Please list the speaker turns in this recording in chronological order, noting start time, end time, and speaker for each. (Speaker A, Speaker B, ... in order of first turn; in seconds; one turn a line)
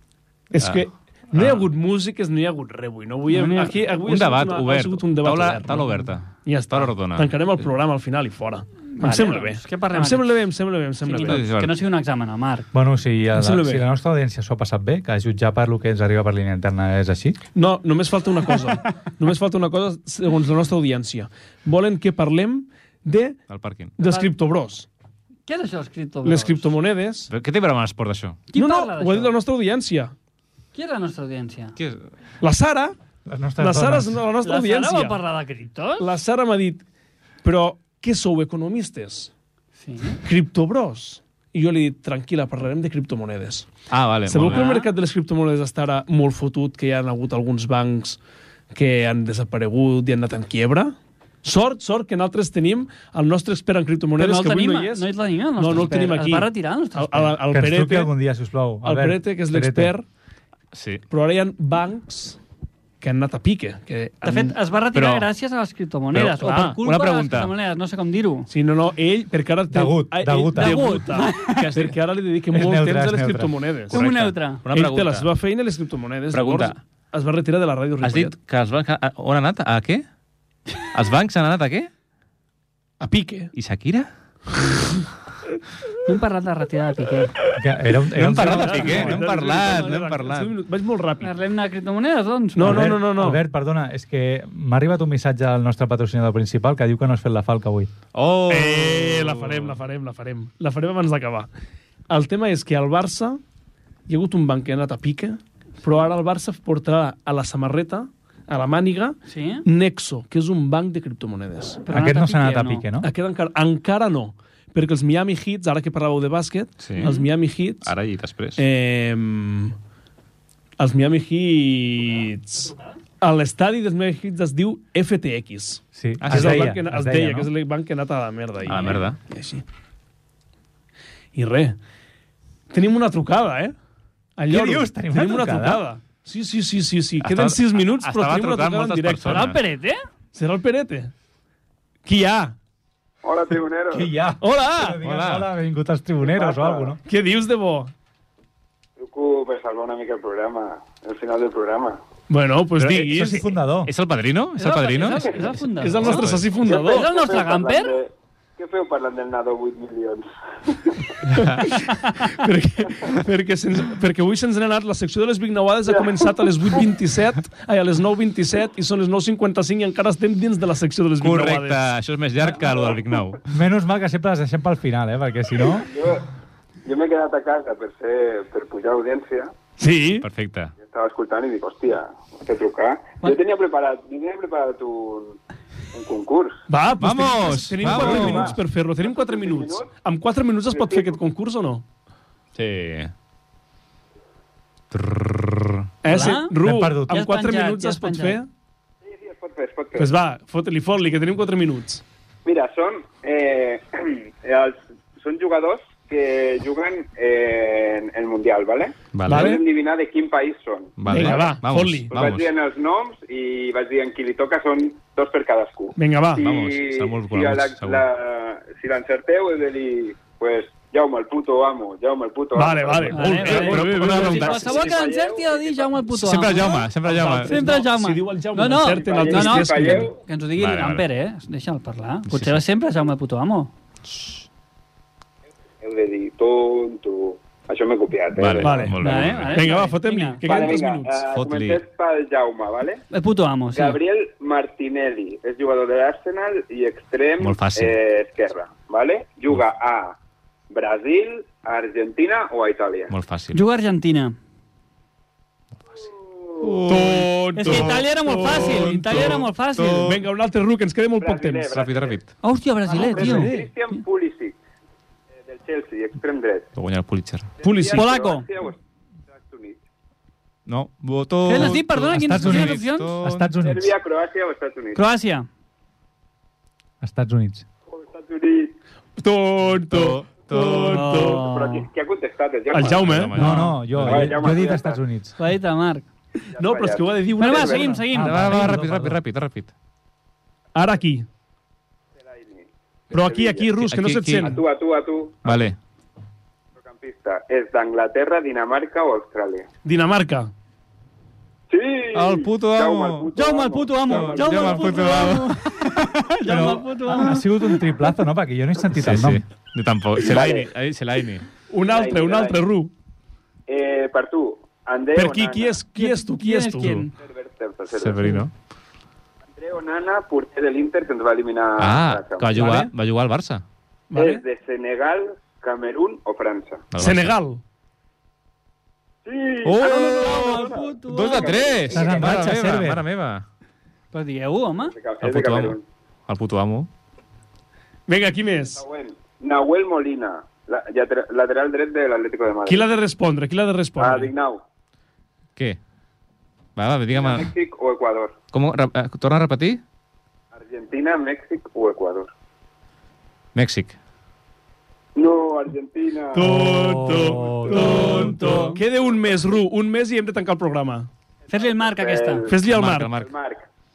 Speaker A: 0.5-5.8
Speaker B: 1.3-1.6
Speaker C: 3.3-3.7
Speaker B: 3.9-7.3
Speaker A: 6.5-11.5
Speaker C: 9.0-10.3
Speaker C: 11.0-12.7
Speaker B: 11.2-11.8
Speaker D: 12.7-17.4
Speaker A: 13.3-13.8
Speaker A: 17.5-23.4
Speaker B: 23.5-23.9
Speaker A: 24.0-24.9
Speaker C: 24.0-24.3
Speaker C: 25.5-26.6
Speaker A: 26.2-27.3
Speaker B: 27.3-28.4
Speaker C: 28.5-29.4
Speaker A: 28.6-30.1
Speaker C: 30.8-31.8
Speaker B: 31.8-32.0
Speaker A: 32.4-33.0
Speaker D: 33.3-34.2
Speaker A: 33.6-35.2
Speaker C: 34.4-36.1
Speaker A: 36.0-36.8
Speaker A: 37.4-39.3
Speaker C: 39.8-40.2
Speaker A: 40.2-43.7
Speaker B: 43.9-44.6
Speaker A: 44.3-48.2
Speaker C: 44.5-44.9
Speaker A: 48.7-58.1
Speaker C: 54.2-57.4
Speaker D: 57.5-59.9
Speaker A: 58.8-60.0
Speaker B: 60.7-61.0
Speaker A: 61.1-62.4
Speaker A: 63.0-64.5
Speaker C: 64.2-68.5
Speaker B: 64.9-65.3
Speaker B: 66.1-67.5
Speaker A: 66.5-66.7
Speaker A: 68.5-74.0
Speaker D: 69.7-70.8
Speaker C: 70.5-71.7
Speaker B: 71.5-72.0
Speaker D: 72.5-73.6
Speaker C: 73.9-74.6
Speaker B: 73.9-75.3
Speaker A: 74.7-78.3
Speaker B: 76.3-76.8
Speaker B: 78.0-80.0
Speaker B: 80.9-81.9
Speaker A: 83.0-83.5
Speaker B: 83.5-84.1
Speaker C: 86.0-87.4
Speaker D: 87.6-89.2
Speaker B: 88.1-90.5
Speaker A: 88.2-91.3
Speaker C: 91.2-93.0
Speaker A: 92.5-93.4
Speaker D: 92.6-97.9
Speaker B: 98.1-99.8
Speaker A: 98.5-101.5
Speaker A: 102.1-103.4
Speaker A: 104.1-111.8
Speaker C: 109.3-109.7
Speaker C: 111.9-112.9
Speaker D: 111.9-113.1
Speaker A: 113.0-117.9
Speaker B: 116.8-117.2
Speaker C: 117.0-117.3
Speaker B: 117.8-118.6
Speaker A: 118.6-119.8
Speaker A: 120.8-129.6
Speaker D: 125.9-127.5
Speaker B: 126.2-126.7
Speaker B: 128.7-129.2
Speaker A: 131.3-131.8
Speaker A: 132.7-133.8
Speaker A: 134.4-139.5
Speaker D: 134.5-135.8
Speaker B: 137.2-139.6
Speaker C: 139.3-140.0
Speaker A: 140.3-141.1
Speaker A: 142.1-142.6
Speaker E: 143.2-144.1
Speaker D: 143.9-147.0
Speaker A: 144.4-145.0
Speaker B: 145.0-145.5
Speaker E: 146.2-147.0
Speaker A: 147.1-147.9
Speaker E: 149.0-152.0
Speaker A: 152.3-153.5
Speaker B: 152.8-156.5
Speaker D: 153.1-153.9
Speaker C: 154.6-157.9
Speaker A: 155.8-157.1
Speaker E: 156.6-161.2
Speaker B: 161.3-161.8
Speaker A: 161.3-171.9
Speaker E: 165.9-166.4
Speaker B: 171.2-173.4
Speaker D: 173.5-175.9
Speaker E: 175.8-176.2
Speaker E: 176.8-179.5
Speaker A: 179.8-180.3
Speaker B: 180.2-180.7
Speaker E: 180.8-185.4
Speaker E: 185.9-186.6
Speaker A: 186.7-191.8
Speaker B: 187.0-188.6
Speaker E: 187.8-189.9
Speaker E: 190.7-191.2
Speaker B: 192.6-193.1
Speaker B: 194.9-195.9
Speaker A: 196.0-198.5
Speaker C: 196.1-196.6
Speaker D: 196.6-197.2
Speaker C: 197.1-198.4
Speaker E: 199.1-200.1
Speaker A: 200.0-202.0
Speaker E: 202.4-211.6
Speaker B: 209.1-209.6
Speaker A: 209.3-209.6
Speaker B: 211.0-212.5
Speaker A: 211.1-212.1
Speaker E: 212.1-226.0
Speaker A: 216.0-216.5
Speaker B: 216.4-218.0
Speaker A: 222.5-224.7
Speaker C: 223.1-233.7
Speaker B: 223.5-224.6
Speaker B: 226.1-227.6
Speaker A: 227.1-230.1
Speaker E: 228.8-230.2
Speaker B: 230.6-231.1
Speaker B: 232.3-232.6
Speaker E: 235.8-238.9
Speaker B: 238.3-239.7
Speaker A: 238.6-241.2
Speaker C: 239.0-240.4
Speaker E: 240.4-243.0
Speaker B: 241.3-241.8
Speaker C: 243.1-244.0
Speaker E: 243.7-250.2
Speaker B: 247.4-248.0
Speaker E: 250.7-253.1
Speaker B: 253.1-253.6
Speaker C: 253.5-254.4
Speaker E: 256.4-256.9
Speaker B: 256.6-260.2
Speaker A: 256.8-259.5
Speaker C: 257.6-260.1
Speaker A: 260.0-261.8
Speaker E: 261.2-262.2
Speaker B: 261.7-262.3
Speaker C: 262.4-263.6
Speaker E: 262.9-264.6
Speaker A: 262.9-263.7
Speaker E: 265.4-266.7
Speaker B: 266.8-267.5
Speaker E: 267.6-268.8
Speaker A: 267.6-268.1
Speaker C: 268.0-268.5
Speaker E: 269.3-269.8
Speaker B: 270.7-273.6
Speaker C: 271.5-273.1
Speaker D: 271.5-273.9
Speaker E: 273.6-275.0
Speaker C: 274.9-275.5
Speaker D: 277.0-277.7
Speaker E: 277.9-278.8
Speaker A: 279.2-281.5
Speaker B: 279.9-281.0
Speaker C: 280.5-281.9
Speaker E: 281.0-285.0
Speaker A: 282.7-283.4
Speaker B: 282.8-284.5
Speaker D: 283.4-285.4
Speaker C: 285.4-286.1
Speaker E: 286.5-288.0
Speaker A: 286.6-288.0
Speaker C: 287.4-288.6
Speaker D: 288.1-289.2
Speaker B: 288.1-289.7
Speaker A: 290.8-291.3
Speaker E: 292.2-293.8
Speaker A: 293.1-294.6
Speaker B: 293.8-294.6
Speaker E: 294.4-295.7
Speaker B: 295.4-295.8
Speaker E: 296.8-299.7
Speaker A: 299.9-300.5
Speaker E: 301.7-305.2
Speaker B: 302.1-303.3
Speaker C: 303.4-307.9
Speaker B: 304.1-305.5
Speaker D: 306.4-309.4
Speaker B: 308.9-311.5
Speaker E: 310.2-310.7
Speaker A: 311.7-312.9
Speaker E: 311.8-312.6
Speaker E: 313.7-315.8
Speaker A: 315.1-317.1
Speaker C: 315.9-317.1
Speaker E: 317.2-318.4
Speaker B: 317.9-318.5
Speaker E: 319.6-322.9
Speaker B: 321.8-323.6
Speaker A: 324.1-324.4
Speaker E: 324.1-326.9
Speaker B: 326.9-327.4
Speaker A: 327.0-327.6
Speaker E: 329.2-332.4
Speaker B: 329.6-333.4
Speaker C: 329.8-331.8
Speaker D: 331.9-333.1
Speaker C: 334.1-334.9
Speaker E: 334.9-335.8
Speaker B: 335.2-335.8
Speaker B: 336.3-336.9
Speaker A: 338.1-338.8
Speaker E: 338.8-342.9
Speaker A: 342.7-344.3
Speaker E: 344.0-344.6
Speaker B: 346.8-347.5
Speaker E: 347.1-348.3
Speaker B: 348.5-349.8
Speaker E: 350.6-352.3
Speaker B: 353.6-354.0
Speaker E: 355.1-356.6
Speaker A: 356.3-361.1
Speaker D: 356.4-358.8
Speaker C: 357.3-358.8
Speaker C: 361.5-362.5
Speaker E: 361.6-363.7
Speaker A: 362.5-363.1
Speaker B: 362.6-363.3